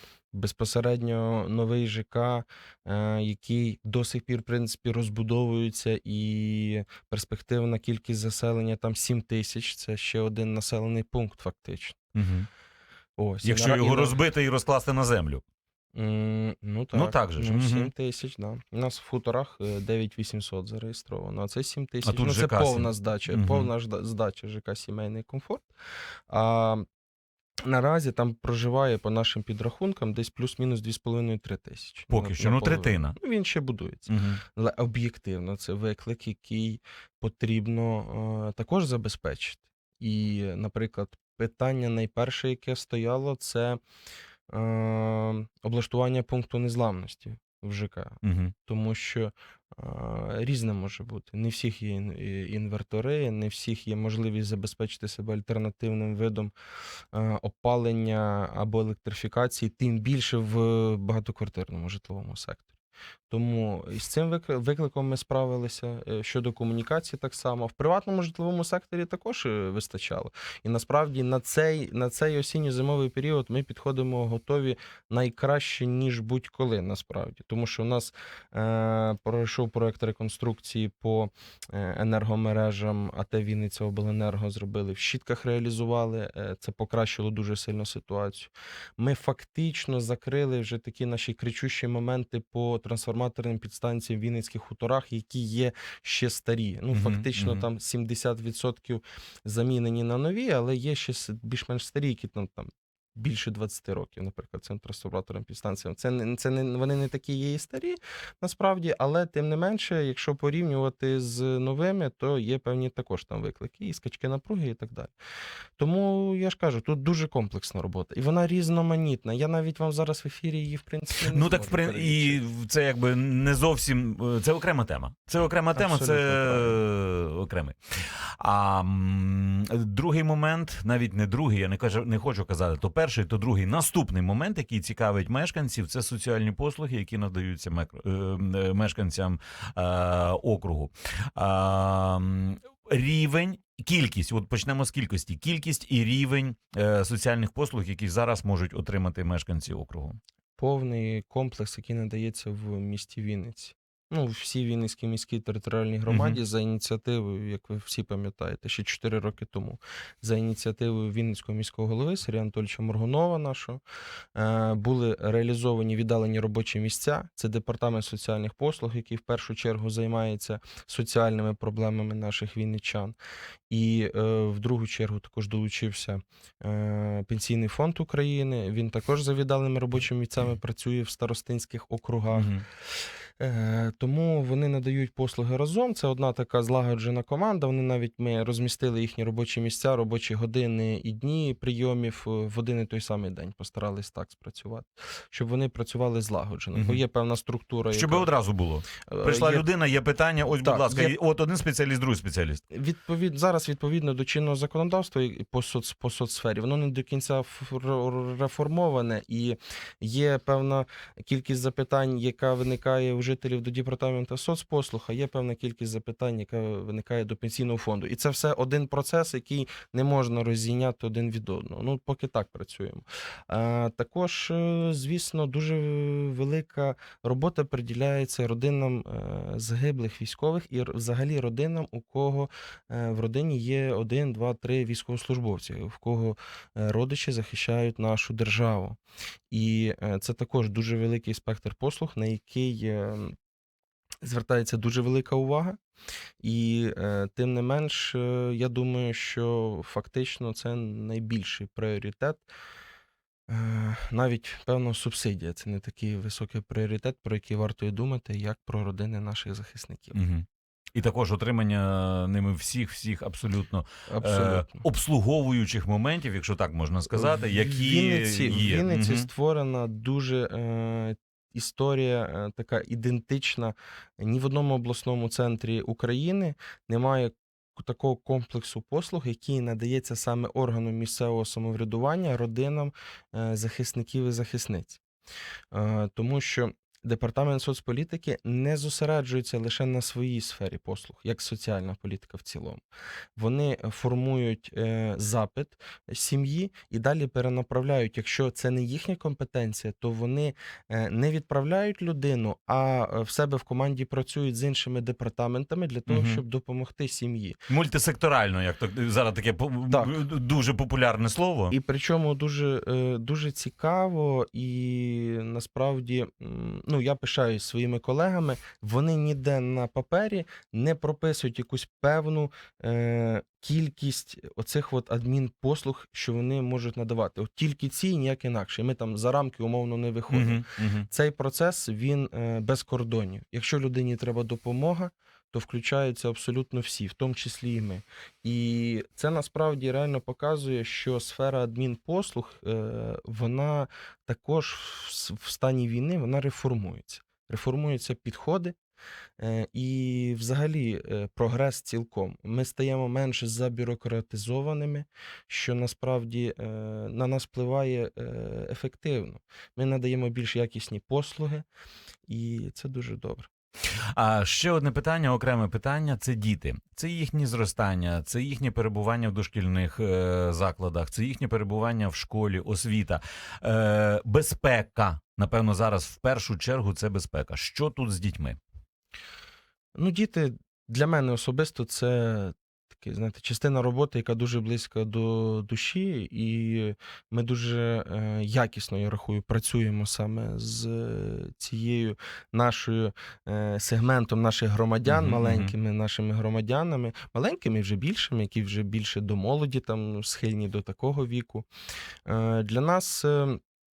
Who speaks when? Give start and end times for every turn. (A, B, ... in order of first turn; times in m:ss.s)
0:00.3-0:12.0 A
0:12.2-0:12.5 B
0:13.2-0:14.2 A
0:13.4-0:15.4 B
0:16.0-0:25.7 A
0:16.9-0:17.9 B
0:22.0-0:23.7 B
0:26.3-0:26.8 A
0:27.6-0:43.8 A
0:32.1-0:33.2 B
0:34.1-0:34.4 B
0:44.5-0:56.5 A
0:48.2-0:48.5 B
0:57.1-1:02.7 A
1:03.3-1:55.1 A
1:36.9-1:37.6 B
1:55.8-2:02.4 A
2:01.3-2:30.2 B
2:05.8-2:06.8 A
2:30.6-2:43.8 A
2:36.1-2:36.4 B
2:44.4-2:53.2 A
2:53.7-3:02.5 A
3:02.3-3:02.6 B
3:03.4-3:18.3 A
3:16.8-3:17.0 B
3:17.9-3:22.6 B
3:19.1-3:19.7 A
3:20.6-3:21.2 A
3:22.7-3:59.0 A
3:59.5-4:03.3 A
4:04.2-4:05.8 A
4:06.4-4:12.5 A
4:13.5-4:20.2 A
4:20.1-4:29.3 B
4:24.1-4:24.8 A
4:27.1-4:45.0 A
4:45.7-4:52.8 A
4:53.4-5:07.6 A
5:06.1-5:06.4 B
5:07.7-5:11.8 B
5:09.9-5:10.2 A
5:11.7-5:48.8 A
5:30.3-5:31.1 B
5:49.4-6:01.7 A
6:02.3-6:03.5 A
6:04.2-6:18.6 B
6:20.0-6:41.7 A
6:35.1-6:35.7 B
6:42.3-6:43.6 A